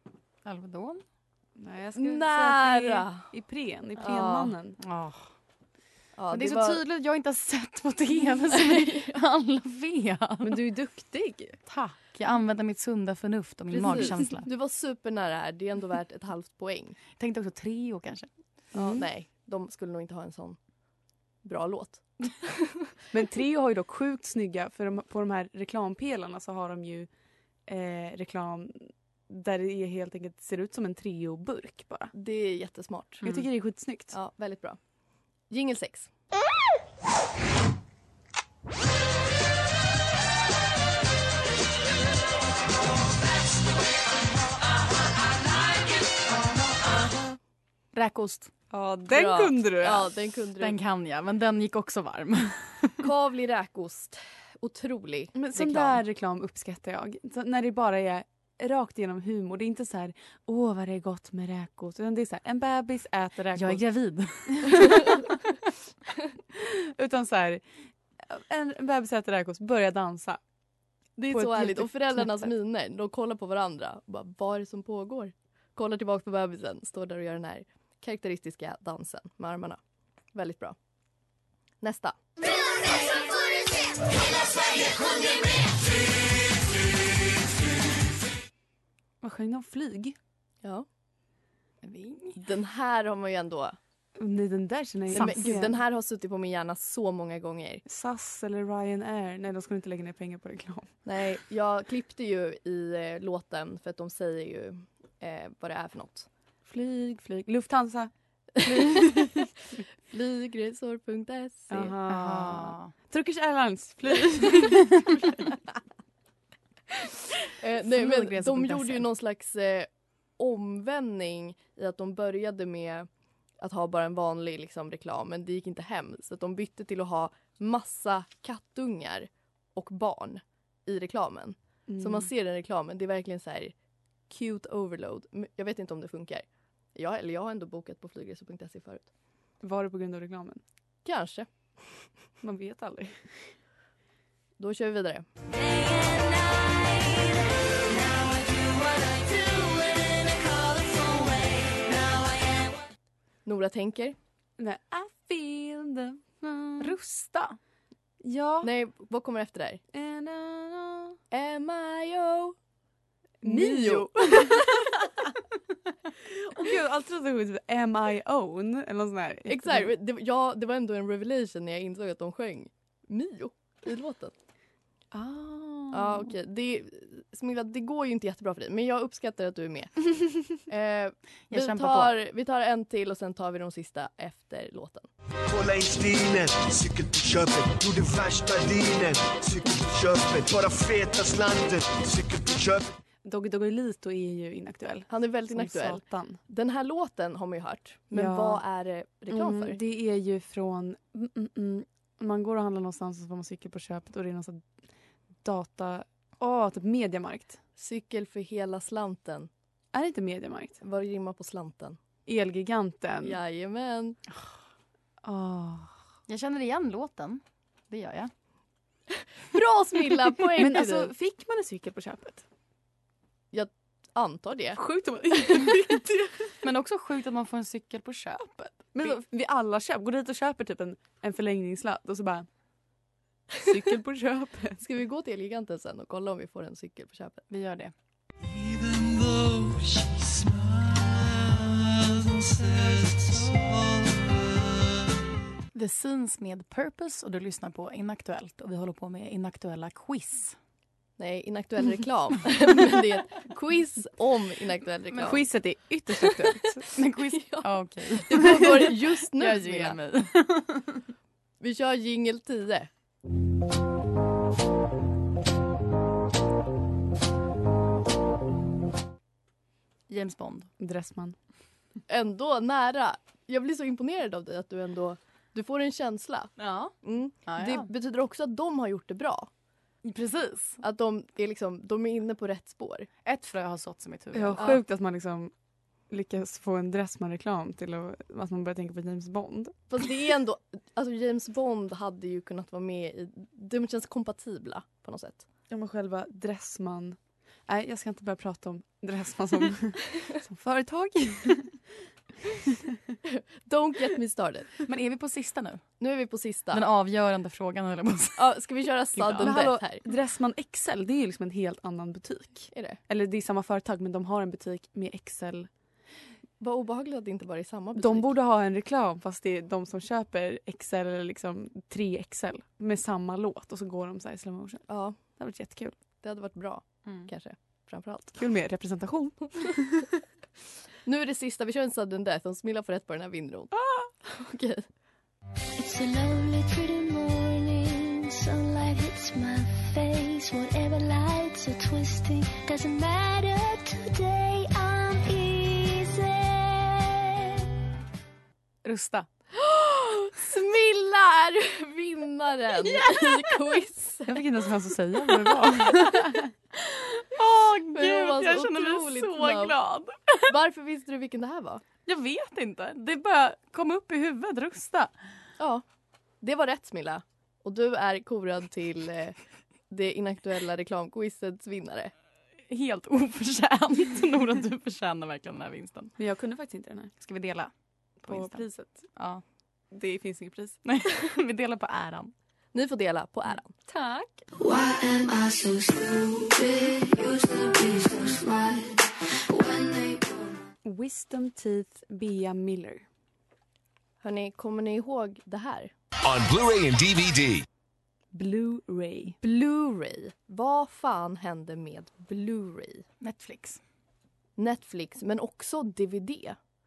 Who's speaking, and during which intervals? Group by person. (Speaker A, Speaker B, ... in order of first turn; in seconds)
Speaker A: 0.5-1.0, 4.8-5.3, 6.3-10.6, 11.7-14.5, 17.2-18.3, 47.9-48.5, 50.6-53.0, 63.5-65.0, 91.8-92.4, 95.2-95.5, 112.1-112.9, 156.8-157.6, 181.5-182.2, 216.3-218.3, 226.6-228.9, 237.5-237.9, 245.7-250.6, 256.9-261.0, 270.1-270.7, 276.6-277.9, 280.0-280.8, 283.2-284.6, 304.9-306.0, 306.7-308.6, 309.1-309.6, 327.1-327.3, 348.8-349.3, 355.5-356.1, 356.9-360.4, 362.1-365.1, 372.7-376.2, 377.2-379.4, 380.9-382.3, 403.2-403.8
Speaker B: 1.6-4.8, 10.4-11.6, 18.7-19.1, 23.1-27.1, 27.7-32.1, 33.2-34.1, 48.7-50.1, 55.3-63.8, 64.5-65.2, 66.5-67.6, 68.2-70.4, 71.3-72.5, 89.2-90.2, 94.2-95.8, 97.9-101.0, 106.7-109.4, 111.7-115.0, 117.8-119.1, 131.9-132.3, 139.6-140.6, 142.4-143.5, 154.6-157.0, 158.2-158.7, 159.9-161.2, 163.4-165.2, 166.3-169.9, 175.1-176.3, 193.2-196.4, 198.1-198.6, 199.3-204.7, 205.4-207.6, 209.9-210.8, 212.3-213.4, 215.2-216.0, 220.6-222.4, 224.8-226.5, 228.9-232.5, 233.7-234.8, 255.2-256.9, 270.8-271.4, 284.3-285.5, 286.1-289.8, 295.7-301.9, 309.4-315.7, 317.9-326.0, 328.4-330.1, 333.8-334.1, 354.3-356.2, 376.2-377.1, 378.3-379.1, 379.9-380.8, 383.9-384.4, 390.8-393.1, 398.3-399.4
Speaker C: 2.0-3.3, 4.0-4.5, 6.2-6.8, 13.7-17.0, 18.7-20.6, 21.4-22.5, 32.1-33.2, 34.1-34.8, 35.5-36.1, 49.1-50.8, 53.0-56.0, 71.2-79.8, 80.3-80.8, 81.8-82.2, 92.4-93.8, 95.1-97.8, 101.0-106.3, 110.0-112.0, 117.6-123.1, 123.6-133.8, 134.3-139.1, 141.1-142.1, 144.6-145.3, 153.4-154.2, 158.6-159.8, 161.3-162.6, 163.4-164.7, 169.5-174.3, 175.9-185.1, 195.1-199.8, 207.8-209.5, 210.8-212.0, 213.2-214.2, 219.5-221.1, 223.5-224.8, 234.8-237.4, 251.2-255.4, 258.2-260.0, 261.6-262.9, 272.1-279.5, 280.8-283.1, 289.9-295.5, 303.6-304.7, 306.0-306.8, 308.4-310.1, 312.7-313.0, 316.6-318.3, 324.9-325.2, 326.2-328.4, 331.1-334.9, 349.6-354.3, 357.9-359.8, 360.5-361.8, 365.6-365.9, 366.4-372.1, 382.7-383.7, 394.2-395.9, 399.4-403.1, 404.6-406.6
Speaker D: 82.7-83.8, 145.7-147.2, 147.9-152.8, 335.8-347.4, 384.6-390.5
Speaker E: 185.5-192.9, 238.5-244.3, 396.3-397.6